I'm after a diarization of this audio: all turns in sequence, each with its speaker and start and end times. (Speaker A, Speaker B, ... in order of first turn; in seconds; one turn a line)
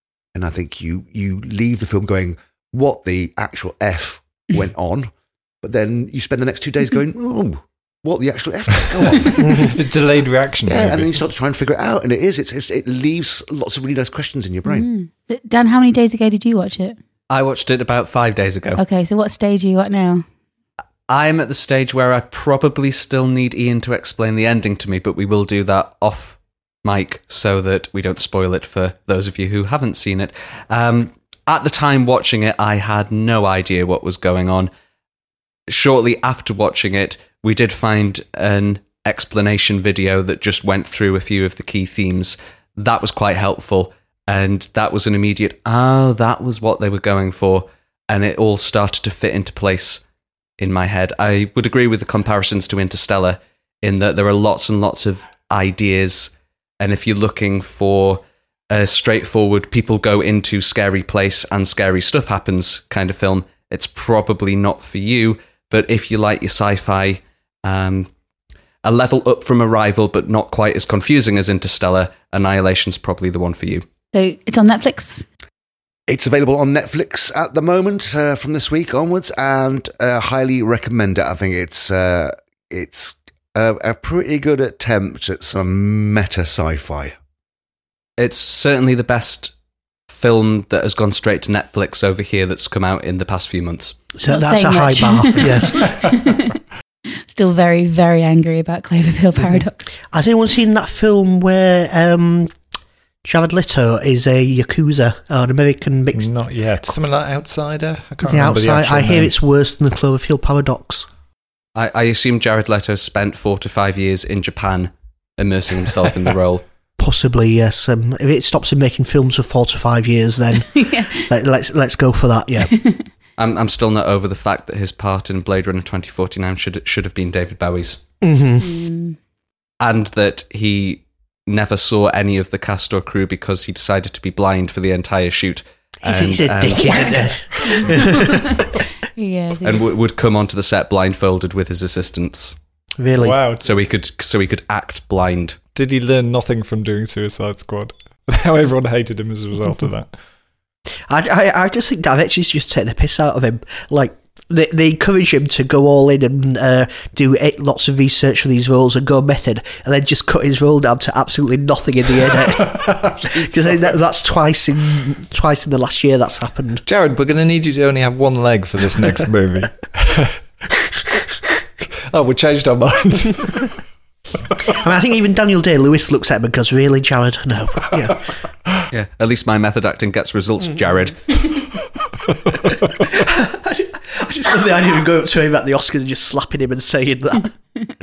Speaker A: 0.3-5.1
Speaker A: 5.6-9.7
Speaker B: 9.2-11.1
Speaker A: 10.6-14.9
Speaker C: 14.7-17.0
Speaker D: 17.3-18.8
Speaker C: 18.8-20.2
Speaker D: 21.1-34.7
Speaker D: 35.7-50.0
Speaker D: 50.6-68.1
Speaker D: 68.8-73.8
Speaker C: 74.1-75.2
Speaker A: 76.1-87.1
Speaker D: 88.2-89.5
Speaker D: 90.1-94.0
Speaker E: 94.1-95.9
Speaker C: 94.3-96.6
Speaker C: 97.2-99.9
Speaker E: 100.1-102.5
Speaker E: 103.2-106.3
Speaker B: 106.1-109.3
Speaker E: 108.2-111.1
Speaker D: 111.7-116.6
Speaker E: 117.0-122.7
Speaker C: 120.7-121.3
Speaker C: 122.8-123.0
Speaker D: 123.4-128.0
Speaker E: 128.2-128.7
Speaker C: 128.6-129.2
Speaker D: 129.8-137.3
Speaker E: 136.0-138.6
Speaker C: 137.7-138.6
Speaker C: 139.1-139.9
Speaker D: 139.6-142.6
Speaker E: 143.0-143.4
Speaker B: 143.2-143.6
Speaker D: 143.6-145.6
Speaker B: 145.7-150.1
Speaker E: 151.1-166.8
Speaker B: 162.6-163.3
Speaker B: 166.8-170.4
Speaker B: 172.1-173.7
Speaker E: 174.7-178.2
Speaker D: 178.9-181.4
Speaker E: 183.0-187.5